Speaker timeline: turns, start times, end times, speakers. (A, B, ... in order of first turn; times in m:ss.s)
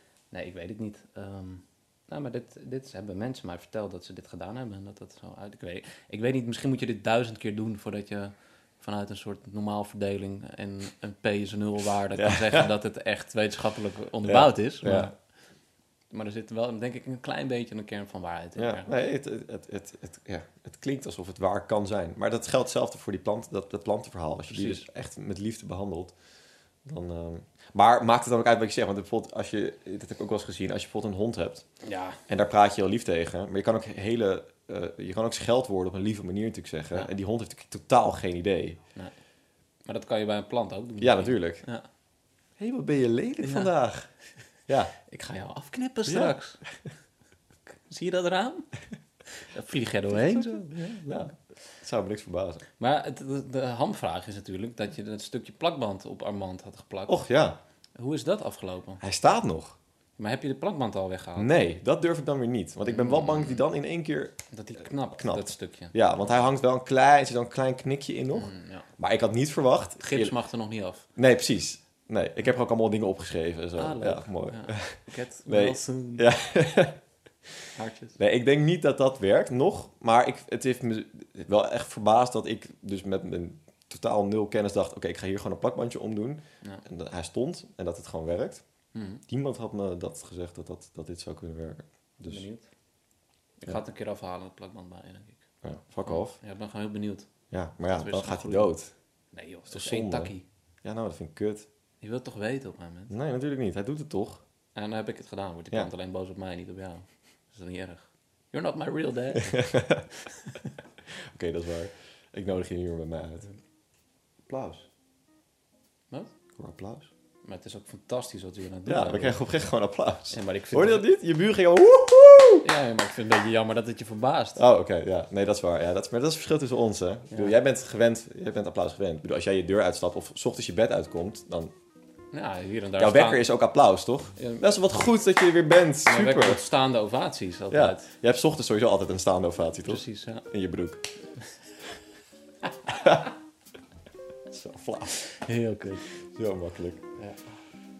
0:00.3-0:15.1 A
0:12.1-0:12.7 B
0:14.2-0:15.1 B
0:16.1-0:18.9 A
0:18.6-0:26.1 B
0:24.5-0:24.8 A
0:26.8-0:31.6 B
0:31.8-0:32.2 A
0:32.3-0:38.8 B
0:39.8-0:41.9 A
0:41.0-0:41.6 B
0:42.6-0:44.1 B
0:43.4-0:43.7 A
0:44.7-0:44.9 B
0:45.0-0:46.6 A
0:46.1-0:46.3 B
0:47.7-0:48.7 A
0:49.3-0:51.3 A
0:50.1-0:52.6 B
0:52.8-0:57.2 A
0:57.1-0:57.6 B
0:58.0-0:59.0 A
0:59.0-0:59.8 B
1:00.2-1:01.5 A
1:01.4-1:04.4 B
1:02.8-1:03.6 A
1:04.5-1:05.9 A
1:05.1-1:10.3 B
1:08.3-1:08.8 A
1:10.0-1:11.0 A
1:11.2-1:17.0 B
1:13.8-1:16.3 A
1:17.8-1:18.2 A
1:18.2-1:28.6 B
1:28.9-1:29.2 A
1:29.3-1:32.4 B
1:32.2-1:32.7 A
1:33.6-1:35.4 A
1:35.6-1:36.4 B
1:36.0-1:37.3 A
1:37.5-1:38.9 B
1:37.9-1:38.7 A
1:39.3-1:40.4 A
1:39.7-1:40.3 B
1:40.8-1:41.7 B
1:42.0-1:43.1 A
1:43.1-1:44.4 B
1:44.7-1:49.6 A
1:49.4-1:50.0 B
1:50.2-1:50.7 A
1:51.1-1:53.5 B
1:54.5-1:54.8 B
1:56.6-1:57.1 B
1:57.4-1:59.4 A
1:58.9-2:02.7 B
2:00.3-2:01.0 A
2:02.6-2:04.6 A
2:04.6-2:11.7 B
2:12.3-2:13.5 A
2:13.0-2:16.6 B
2:14.4-2:14.6 A
2:16.0-2:18.0 A
2:17.7-2:21.1 B
2:19.8-2:20.4 A
2:22.9-2:23.2 B
2:24.5-2:25.2 B
2:25.1-2:26.0 A
2:26.2-2:27.0 B